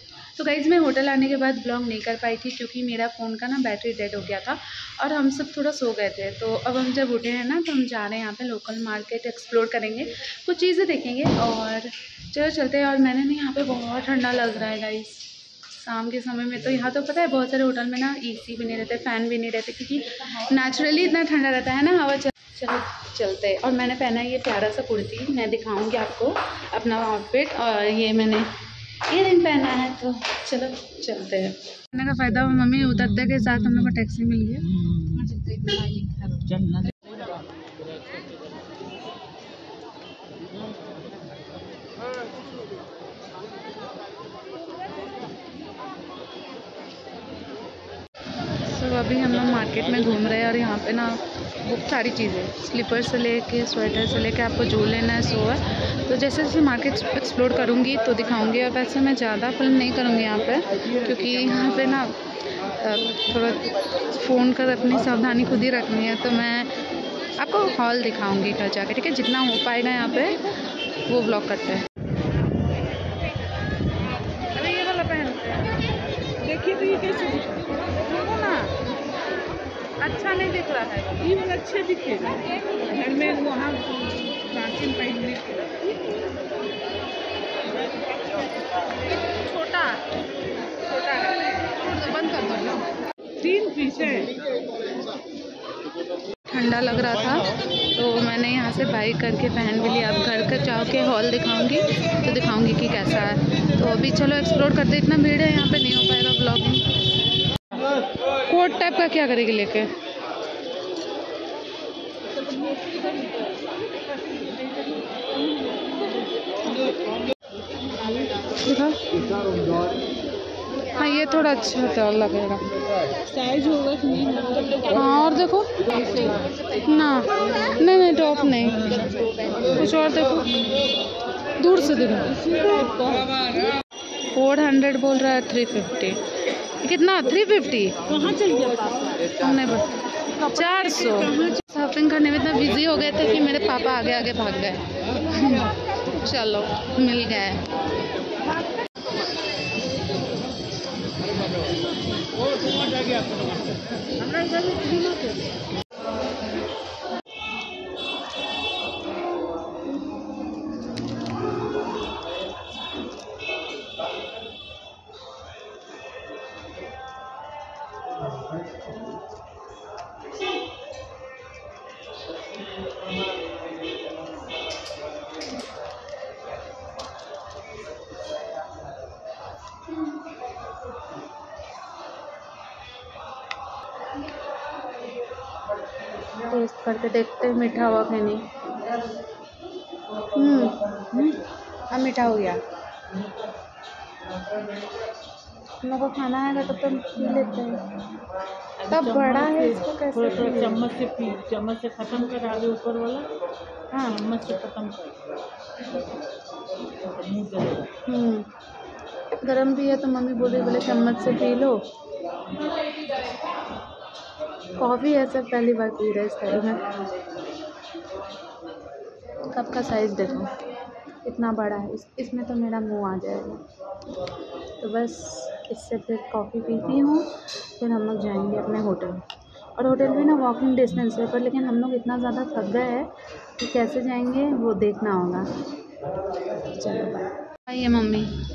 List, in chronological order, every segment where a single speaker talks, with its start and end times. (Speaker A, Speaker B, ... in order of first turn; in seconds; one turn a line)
Speaker A: 0.4-28.5
Speaker A: 29.0-34.8
Speaker B: 32.6-34.0
Speaker B: 34.6-37.2
Speaker A: 48.6-66.7
Speaker A: 67.3-71.9
Speaker A: 74.5-75.8
Speaker B: 76.4-77.8
Speaker A: 78.0-78.8
Speaker A: 80.0-81.3
Speaker B: 81.2-86.2
Speaker B: 87.9-88.5
Speaker A: 89.2-90.1
Speaker A: 90.8-92.8
Speaker B: 93.4-94.3
Speaker A: 96.5-106.9
Speaker A: 108.4-109.9
Speaker B: 112.5-113.5
Speaker B: 115.0-116.2
Speaker B: 118.1-118.4
Speaker A: 118.6-119.5
Speaker A: 120.9-122.7
Speaker B: 123.2-124.9
Speaker A: 124.8-129.1
Speaker A: 129.7-130.7
Speaker A: 131.6-132.4
Speaker B: 132.3-133.4
Speaker A: 134.2-136.2
Speaker A: 136.8-138.0
Speaker B: 138.1-139.2
Speaker A: 139.3-147.6
Speaker B: 141.1-141.6
Speaker B: 154.3-155.2
Speaker A: 186.5-188.4
Speaker A: 190.3-192.6
Speaker A: 195.8-197.8
Speaker B: 198.8-203.3
Speaker A: 198.9-200.9
Speaker A: 203.9-204.2
Speaker B: 204.0-205.2
Speaker B: 207.0-207.9
Speaker A: 208.1-208.5
Speaker A: 209.4-211.8
Speaker A: 214.8-216.8
Speaker A: 219.5-220.5
Speaker A: 221.2-223.6
Speaker A: 224.8-229.2
Speaker A: 229.8-235.5
Speaker A: 236.6-238.3